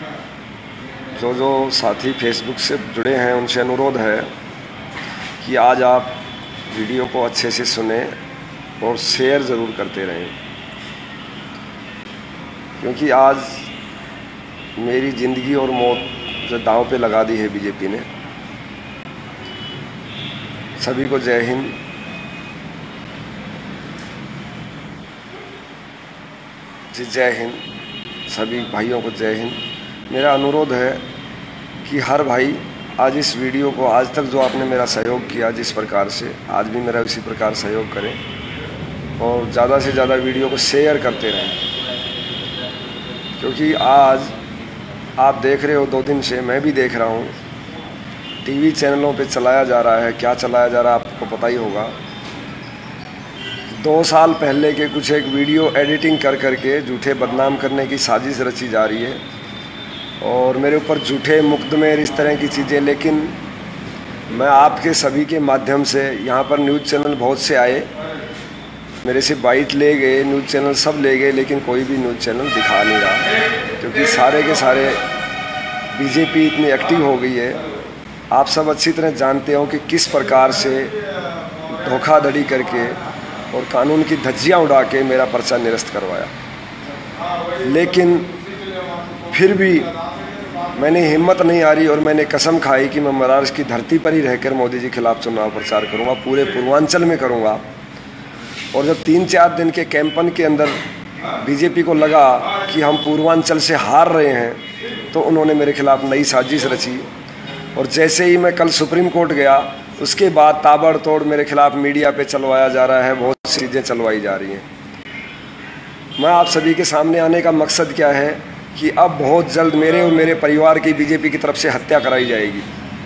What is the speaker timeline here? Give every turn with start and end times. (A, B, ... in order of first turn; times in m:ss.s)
0:01.2-0:04.3 A
0:05.4-0:08.2 A
0:08.8-0:10.4 A
0:12.8-0:13.7 A
0:14.8-0:18.1 A
0:20.8-0:21.8 A
0:26.9-0:27.6 A
0:28.3-0:31.0 A
0:31.8-0:38.2 A
0:39.2-0:41.7 A
0:43.4-0:44.3 A
0:45.2-0:47.4 A
0:48.4-0:52.0 A
0:53.8-0:59.2 A
1:00.2-1:03.4 A
1:04.3-1:07.9 A
1:09.0-1:15.0 A
1:15.9-1:17.6 A
1:18.3-1:21.0 A
1:21.7-1:26.3 A
1:27.6-1:28.4 A
1:29.3-1:30.0 A
1:30.7-1:37.6 A
1:38.7-1:40.8 A
1:41.4-1:47.1 A
1:47.8-1:54.7 A
1:56.2-2:02.7 A